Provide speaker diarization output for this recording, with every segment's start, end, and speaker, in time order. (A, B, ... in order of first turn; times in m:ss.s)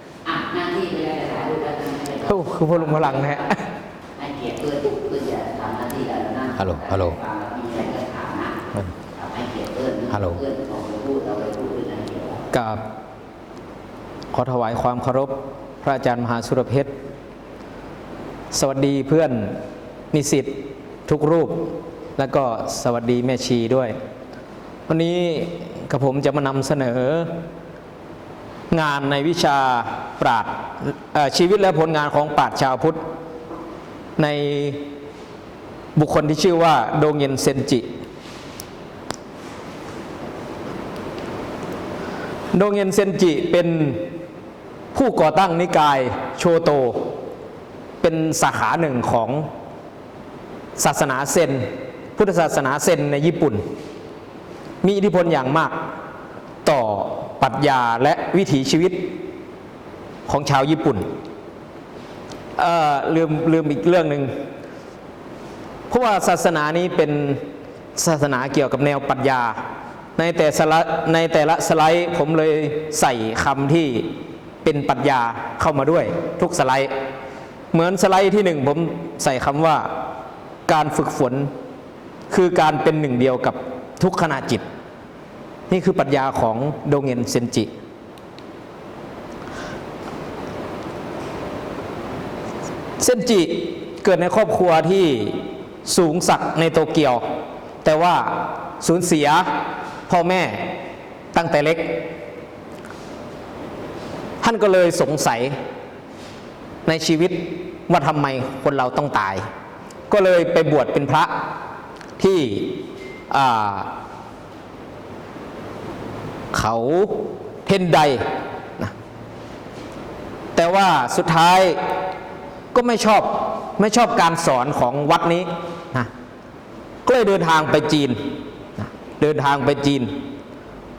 0:00.2-0:03.6 A
0:02.3-0:03.6 B
0:04.2-0:08.6 A
0:06.6-0:07.2 B
0:09.1-0:12.4 A
0:10.1-0:10.4 B
0:12.5-0:12.8 B
0:14.3-0:16.9 B
0:18.5-0:19.6 B
0:20.1-0:21.6 B
0:22.2-0:23.9 B
0:24.9-0:27.3 B
0:28.7-0:33.0 B
0:34.2-0:34.8 B
0:36.0-0:37.9 B
0:42.5-0:44.1 B
0:44.9-0:47.0 B
0:48.0-0:49.4 B
0:50.8-0:53.6 B
0:54.8-0:55.7 B
0:56.6-0:59.1 B
1:00.3-1:01.0 B
1:02.6-1:04.3 B
1:05.9-1:07.4 B
1:08.0-1:09.6 B
1:10.2-1:14.1 B
1:14.6-1:16.9 B
1:17.7-1:19.9 B
1:20.7-1:21.5 B
1:22.3-1:24.6 B
1:25.7-1:27.7 B
1:33.0-1:37.2 B
1:37.8-1:39.5 B
1:40.1-1:40.6 B
1:41.3-1:42.0 B
1:44.4-1:45.5 B
1:46.8-1:49.4 B
1:50.1-1:51.3 B
1:52.2-1:53.9 B
1:56.5-1:58.2 B
2:00.6-2:01.8 B
2:02.7-2:06.1 B
2:07.0-2:08.2 B
2:08.8-2:10.1 B